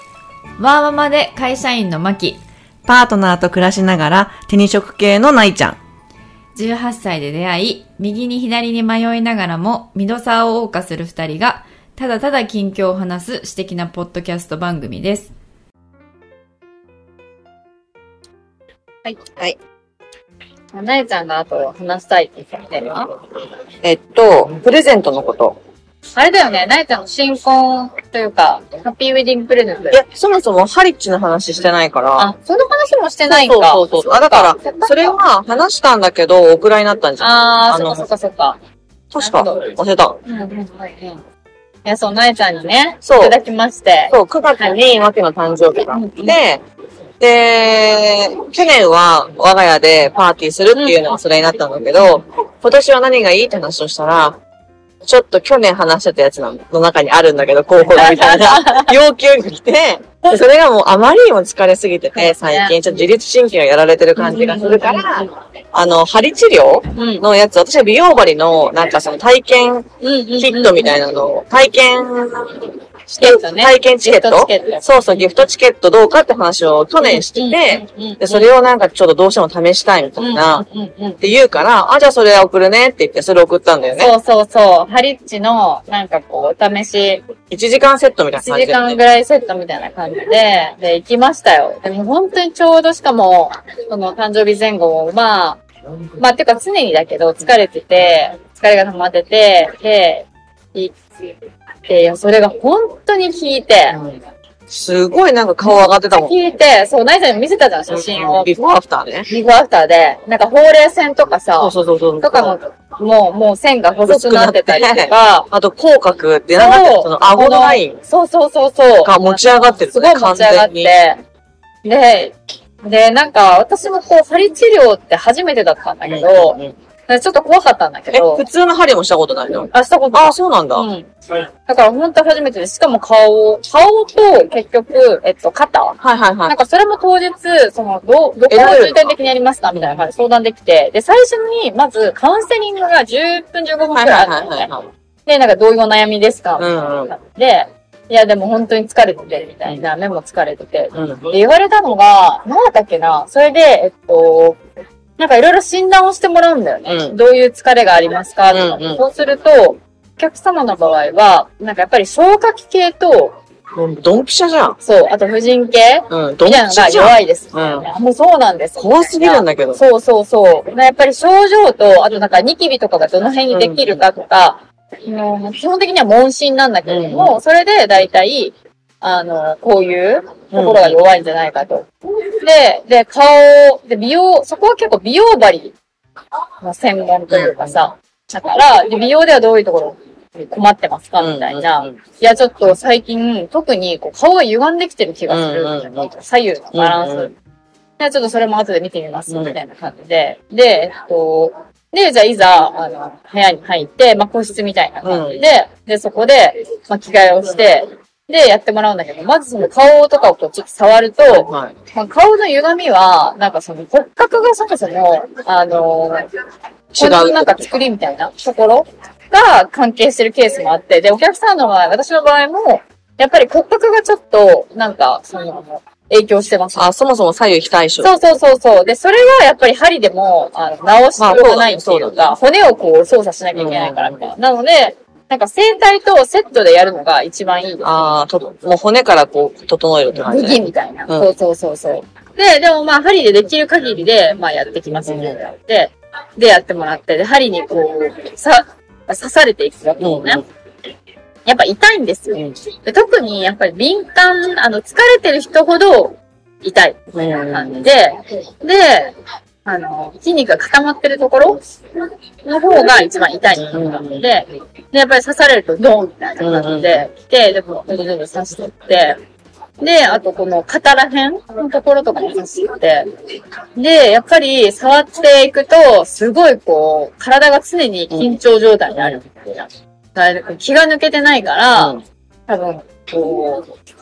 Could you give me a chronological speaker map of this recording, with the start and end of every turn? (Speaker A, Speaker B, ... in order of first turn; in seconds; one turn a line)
Speaker A: 0.6-2.4
Speaker B: 2.9-5.8
Speaker A: 6.5-15.3
Speaker C: 20.7-23.1
Speaker B: 23.8-25.6
Speaker C: 26.1-30.0
Speaker B: 29.9-32.3
Speaker C: 32.2-35.2
Speaker B: 33.3-38.1
Speaker C: 37.2-38.6
Speaker B: 39.1-40.2
Speaker C: 39.2-39.7
Speaker C: 40.2-41.2
Speaker C: 41.8-44.7
Speaker B: 43.0-43.4
Speaker B: 44.1-46.6
Speaker C: 45.9-46.4
Speaker B: 47.2-54.4
Speaker C: 50.7-51.1
Speaker B: 55.0-69.9
Speaker C: 57.9-58.9
Speaker C: 62.1-63.0
Speaker C: 64.2-65.3
Speaker C: 66.9-67.3
Speaker C: 70.0-71.0
Speaker B: 70.4-80.6
Speaker C: 73.2-75.2
Speaker C: 77.0-78.5
Speaker C: 80.2-81.2
Speaker B: 81.2-84.1
Speaker C: 84.0-87.2
Speaker B: 87.5-89.0
Speaker C: 88.4-95.6
Speaker C: 96.2-101.0
Speaker C: 101.8-104.0
Speaker B: 103.9-104.2
Speaker B: 104.7-106.3
Speaker C: 105.6-108.5
Speaker B: 107.9-109.3
Speaker C: 109.3-115.5
Speaker B: 111.6-112.5
Speaker B: 114.0-118.0
Speaker C: 116.6-121.2
Speaker B: 119.0-120.9
Speaker C: 121.8-128.4
Speaker B: 126.0-126.7
Speaker B: 128.1-130.9
Speaker C: 129.7-131.1
Speaker C: 131.6-144.7
Speaker B: 136.0-136.5
Speaker B: 138.5-139.0
Speaker B: 139.7-140.1
Speaker B: 143.9-144.9
Speaker C: 145.2-154.6
Speaker B: 146.6-147.1
Speaker B: 150.9-151.2
Speaker C: 155.2-163.4
Speaker B: 156.8-157.2
Speaker B: 158.5-159.0
Speaker B: 163.7-164.8
Speaker C: 164.8-181.9
Speaker B: 166.1-167.9
Speaker B: 168.8-169.8
Speaker B: 173.5-174.0
Speaker B: 176.9-177.4
Speaker B: 180.5-181.0
Speaker C: 182.4-185.7
Speaker C: 186.6-197.3
Speaker B: 187.3-187.8
Speaker B: 191.2-192.0
Speaker B: 195.3-196.1
Speaker B: 196.7-197.3
Speaker C: 198.0-216.2
Speaker B: 199.3-199.6
Speaker B: 205.0-205.4
Speaker B: 211.3-211.7
Speaker B: 216.9-217.7
Speaker C: 216.9-226.9
Speaker B: 226.7-228.2
Speaker C: 228.0-238.0
Speaker B: 231.2-232.3
Speaker B: 233.6-234.2
Speaker B: 237.8-241.3
Speaker C: 240.2-250.4
Speaker B: 245.1-245.3
Speaker B: 250.0-250.4
Speaker C: 251.4-259.1
Speaker B: 257.1-257.9
Speaker C: 259.6-261.6
Speaker C: 262.4-269.2
Speaker B: 263.5-264.2
Speaker B: 266.4-267.0
Speaker C: 269.8-273.1
Speaker C: 273.7-281.9
Speaker B: 278.1-278.4
Speaker B: 281.7-282.0
Speaker C: 282.5-283.7